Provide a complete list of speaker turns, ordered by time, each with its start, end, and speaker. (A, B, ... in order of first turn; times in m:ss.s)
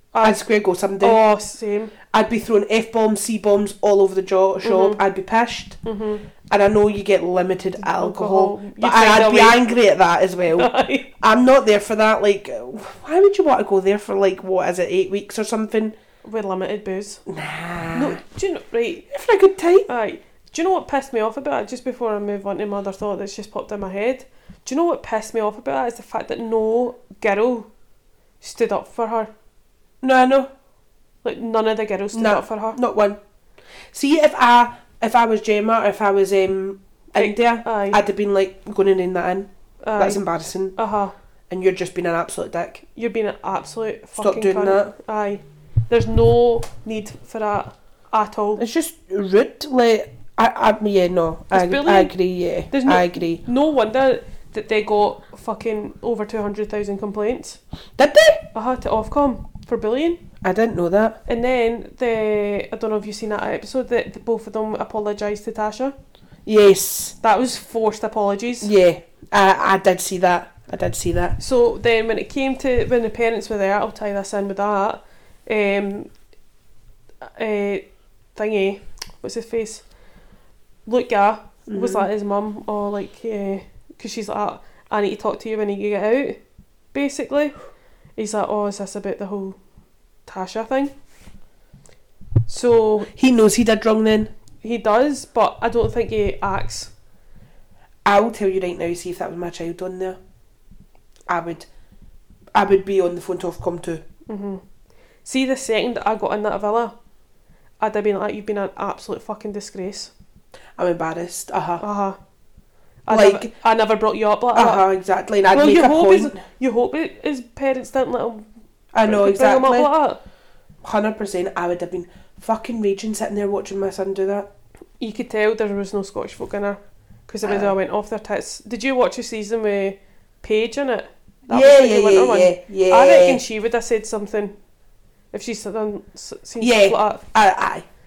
0:00.1-0:00.4 A
0:00.2-0:01.2 B
0:01.0-0:01.9 A
0:02.1-0:05.8 B
0:04.6-0:05.0 A
0:05.8-0:06.2 A
0:06.5-0:16.0 B
0:07.8-0:09.6 A
0:10.5-0:11.1 A
0:16.2-0:17.2 A
0:17.3-0:18.2 B
0:17.9-0:19.1 A
0:19.1-0:19.9 B
0:19.9-0:27.7 A
0:28.4-0:29.3 A
0:30.0-0:30.5 B
0:31.2-0:32.8 A
0:32.1-0:33.2 B
0:33.9-0:40.8 B
0:37.2-0:38.0 A
0:39.8-0:40.2 A
0:40.8-0:41.1 A
0:41.5-0:42.8 B
0:43.0-0:48.6 A
0:44.2-0:44.9 B
0:48.6-0:53.4 B
0:51.5-0:52.2 A
0:52.7-0:57.6 A
0:58.0-0:58.4 B
0:58.5-1:00.2 A
1:00.4-1:01.2 B
1:01.3-1:06.0 A
1:06.5-1:07.2 B
1:07.2-1:08.7 A
1:08.6-1:11.4 B
1:11.4-1:16.1 A
1:17.2-1:19.8 A
1:20.9-1:26.4 A
1:21.7-1:22.1 B
1:26.9-1:27.6 A
1:28.2-1:29.6 A
1:30.3-1:30.9 A
1:32.5-1:33.1 A
1:33.1-1:34.3 B
1:34.6-1:36.9 A
1:38.0-1:40.2 B
1:41.3-1:41.7 B
1:42.6-1:44.0 B
1:44.3-1:44.6 A
1:45.2-1:47.0 A
1:47.8-1:50.1 A
1:50.8-1:51.8 B
1:51.8-1:52.2 A
1:53.1-1:54.9 A
1:53.1-1:53.5 B
1:54.5-1:56.4 B
1:55.5-1:58.5 A
1:58.9-1:59.9 B
1:59.0-2:00.2 A
2:00.8-2:04.5 B
2:05.0-2:14.5 A
2:07.4-2:07.8 B
2:11.5-2:13.4 B
2:15.3-2:17.2 A
2:16.6-2:17.8 B